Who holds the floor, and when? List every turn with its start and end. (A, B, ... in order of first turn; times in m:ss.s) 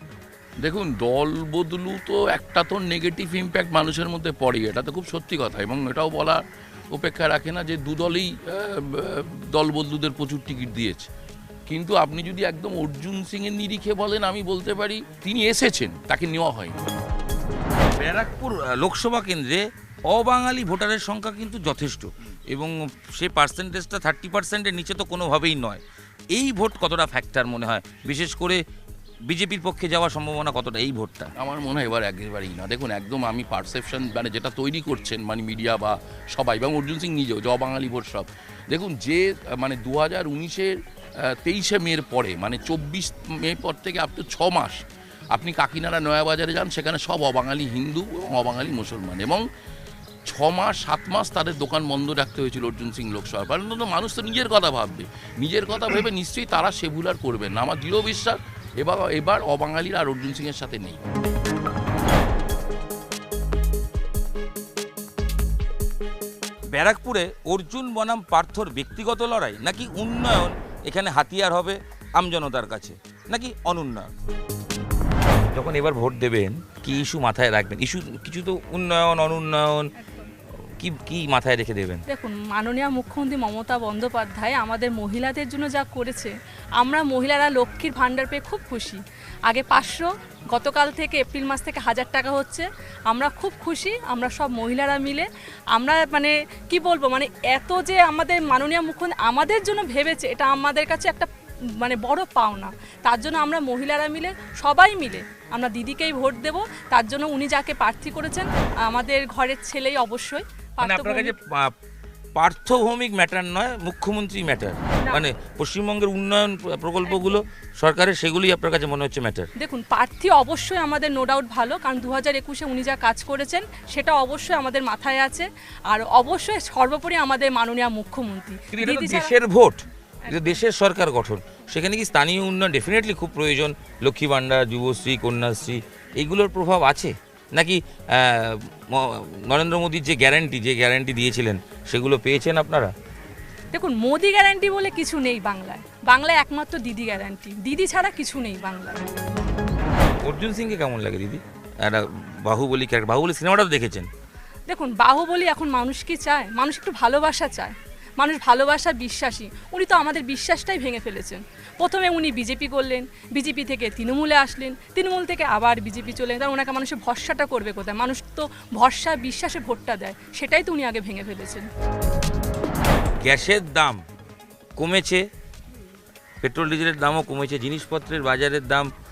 0:00.6-0:11.1 A
0:11.7-0:16.7 A
0:18.0-0:25.8 B
0:26.3-0:28.6 B
0:29.3-0:31.3 B
0:31.4-0:49.4 A
0:50.3-1:01.0 A
1:06.7-1:14.1 B
1:15.5-1:19.9 B
1:20.8-1:22.0 B
1:22.1-1:51.3 C
1:50.8-1:51.7 B
1:52.4-1:59.5 B
1:59.6-2:09.3 C
2:08.7-2:22.9 B
2:23.7-2:29.0 C
2:30.2-2:34.1 B
2:34.7-2:51.6 C
2:53.2-2:54.0 B
2:54.8-2:55.2 B
2:56.4-2:58.9 B